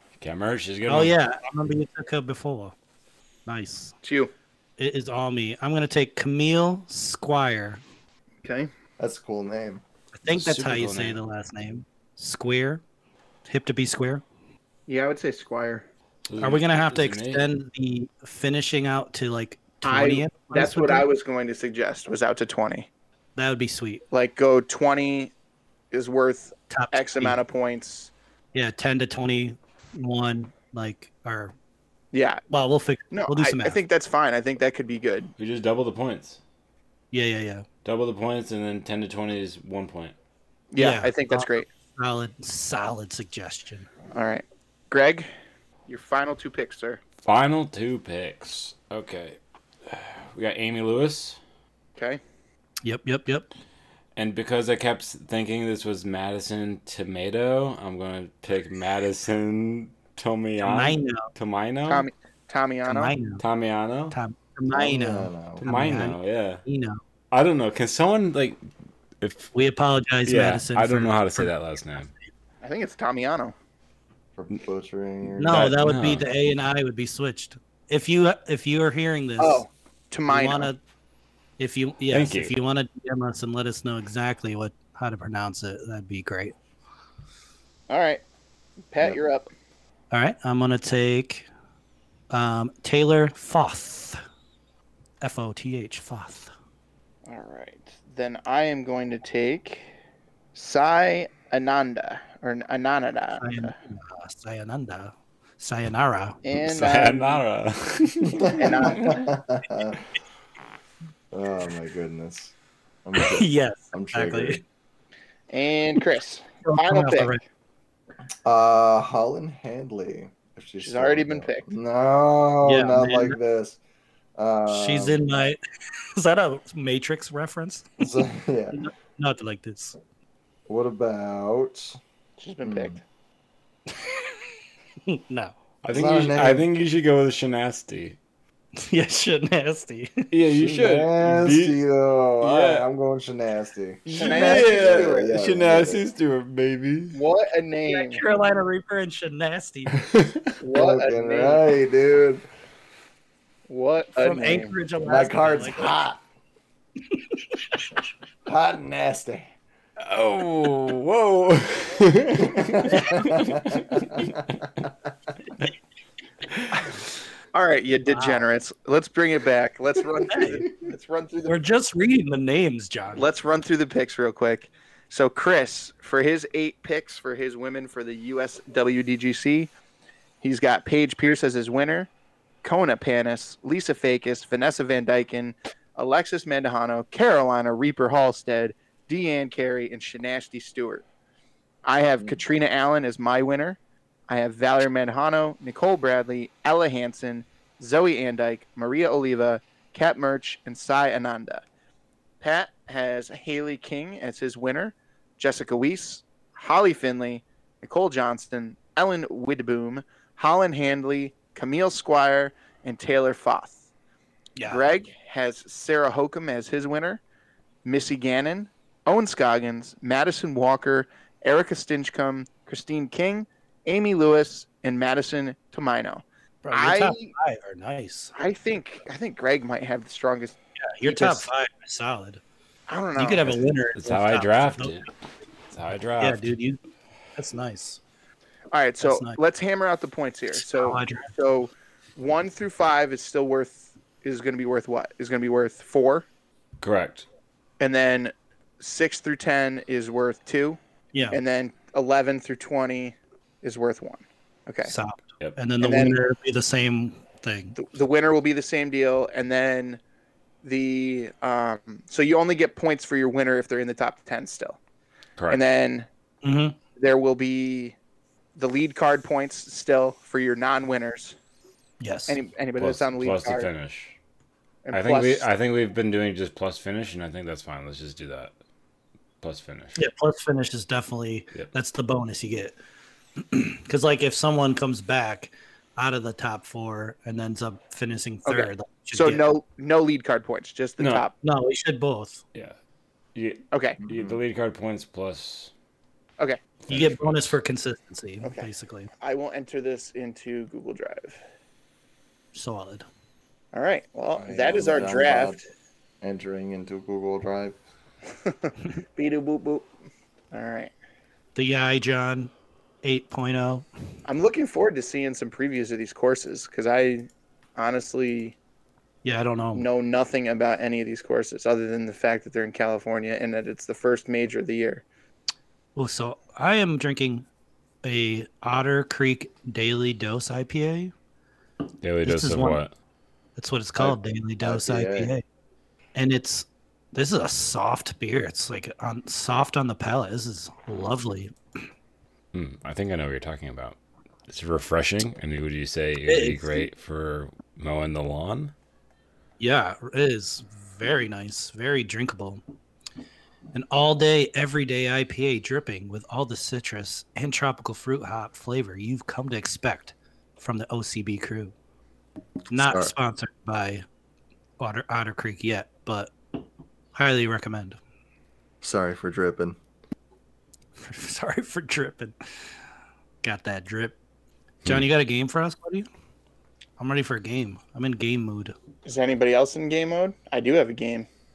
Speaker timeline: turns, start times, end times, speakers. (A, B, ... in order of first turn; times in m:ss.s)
0:00.2-0:01.2 A
0:00.9-0:02.8 B
0:03.5-0:03.9 B
0:04.0-0:04.3 C
0:04.8-0:07.8 B
0:08.4-0:08.7 C
0:09.0-0:09.8 D
0:10.1-0:12.8 B
0:10.3-0:11.2 A
0:13.5-0:14.2 B
0:14.9-0:15.9 C
0:16.3-0:17.5 A
0:16.4-0:21.1 B
0:19.8-0:22.9 C
0:23.4-0:24.0 B
0:24.1-0:25.3 C
0:25.9-0:28.1 C
0:26.7-0:27.4 B
0:28.5-0:31.5 B
0:32.1-0:32.4 C
0:32.5-0:33.8 B
0:33.1-0:35.3 C
0:35.4-0:36.4 A
0:37.1-0:37.7 B
0:37.8-0:40.2 A
0:40.7-0:41.6 C
0:40.8-0:43.9 B
0:44.1-0:45.3 C
0:45.9-0:47.0 C
0:47.2-0:51.4 A
0:52.0-0:52.2 C
0:52.8-0:53.5 B
0:54.2-1:02.1 A
1:00.6-1:01.3 B
1:01.9-1:03.1 C
1:02.9-1:03.4 B
1:03.4-1:04.2 A
1:04.1-1:07.0 B
1:04.7-1:05.6 D
1:05.6-1:06.6 A
1:07.3-1:08.6 A
1:09.2-1:09.5 A
1:09.5-1:11.5 B
1:10.2-1:12.1 A
1:12.6-1:13.5 C
1:14.4-1:15.8 D
1:15.3-1:19.6 B
1:15.5-1:16.3 A
1:19.4-1:20.7 C
1:20.3-1:20.8 B
1:21.6-1:26.6 B
1:22.1-1:22.6 A
1:27.9-1:28.2 C
1:28.9-1:29.5 C
1:30.1-1:31.5 B
1:32.3-1:34.2 B
1:35.2-1:36.5 B
1:37.3-1:39.9 C
1:40.6-1:43.7 C
1:43.4-1:46.4 B
1:46.4-1:47.4 C
1:46.6-1:48.9 A
1:48.4-1:50.0 D
1:48.6-1:49.3 C
1:51.3-1:52.5 D
1:53.0-1:54.6 D
1:53.2-1:54.6 B
1:55.5-1:57.4 C
1:56.6-1:57.4 B
1:58.4-2:03.8 D
2:00.8-2:01.7 C
2:02.6-2:03.4 B
2:04.4-2:05.2 D
2:04.7-2:05.6 B
2:06.2-2:08.0 B
2:08.0-2:08.8 D
2:08.7-2:10.0 B
2:10.7-2:12.0 D
2:12.4-2:13.0 C
2:12.6-2:13.0 D
2:15.1-2:15.6 B
2:15.8-2:18.2 A
2:15.9-2:16.7 D
2:18.8-2:20.3 B
2:20.3-2:21.8 A
2:20.5-2:26.0 D
2:22.4-2:22.9 A
2:24.1-2:27.2 A
2:24.1-2:25.4 C
2:27.1-2:28.2 C
2:27.9-2:30.0 B
2:30.0-2:30.4 A
2:30.6-2:31.6 C
2:30.7-2:32.5 D
2:33.7-2:34.7 C
2:34.2-2:36.0 B
2:35.0-2:36.2 D
2:37.2-2:37.9 B
2:38.5-2:39.5 D
2:40.0-2:44.4 A
2:42.4-2:44.9 D
2:47.5-2:51.6 C
2:48.1-2:48.4 B
2:50.2-2:50.6 B
2:51.5-2:53.3 B
2:53.2-2:59.7 C
3:00.4-3:02.1 C
3:02.6-3:11.0 C
3:11.8-3:13.8 C
3:14.3-3:21.6 C
3:22.4-3:33.8 C
3:34.6-3:34.9 B
3:34.7-3:37.2 C
3:37.8-3:47.3 C
3:46.6-3:48.4 B
3:48.4-3:51.5 C
3:50.8-3:52.4 B
3:52.9-3:53.7 C
3:53.2-3:55.1 B
3:54.0-3:55.1 A
3:55.7-3:56.4 A
3:56.2-3:56.8 B
3:57.4-3:58.0 B
3:58.7-4:06.3 C
3:59.0-3:59.4 B
4:00.5-4:01.3 B
4:06.8-4:07.3 A
4:07.8-4:10.8 C
4:11.1-4:11.4 B
4:11.3-4:14.9 C
4:14.8-4:17.8 B
4:15.8-4:16.2 C
4:17.8-4:20.0 C
4:20.6-4:24.8 C
4:25.5-4:26.1 C
4:26.4-4:26.8 B
4:27.0-4:28.0 C
4:28.6-4:31.4 C
4:32.0-4:32.4 B
4:32.3-4:33.7 C
4:32.8-4:34.2 A
4:34.8-4:35.5 C
4:34.9-4:38.5 A
4:39.4-4:40.0 A
4:40.0-4:42.8 B
4:43.4-4:49.4 B
4:48.5-4:51.3 C
4:51.0-4:51.3 A
4:51.4-4:52.4 B
4:53.4-4:55.7 A
4:53.7-4:54.0 C
4:54.0-4:54.4 D
4:56.4-4:56.7 C
4:56.9-4:57.5 A
4:56.9-4:59.1 B
4:58.4-5:01.4 C
5:02.5-5:03.1 B
5:03.7-5:05.6 C
5:04.4-5:05.6 D
5:06.2-5:07.8 D
5:08.4-5:09.9 C
5:10.5-5:10.9 C
5:11.6-5:12.5 B
5:13.0-5:13.9 B
5:14.3-5:18.6 C
5:19.2-5:19.9 B
5:19.8-5:25.0 C
5:26.0-5:27.5 B
5:28.0-5:31.1 B
5:32.0-5:32.9 A
5:32.2-5:32.8 B
5:33.6-5:35.4 B
5:34.0-5:35.3 D
5:36.2-5:41.8 B
5:42.5-5:44.0 A
5:44.5-5:48.7 A
5:46.2-5:46.9 B
5:49.6-5:52.6 B
5:53.7-6:01.7 B
6:02.7-6:04.0 B
6:02.7-6:03.1 D
6:04.8-6:06.3 B
6:07.2-6:08.0 B
6:08.8-6:09.8 D
6:11.0-6:12.3 B
6:13.4-6:14.2 B
6:14.8-6:16.1 B
6:17.0-6:18.8 B
6:19.0-6:21.3 C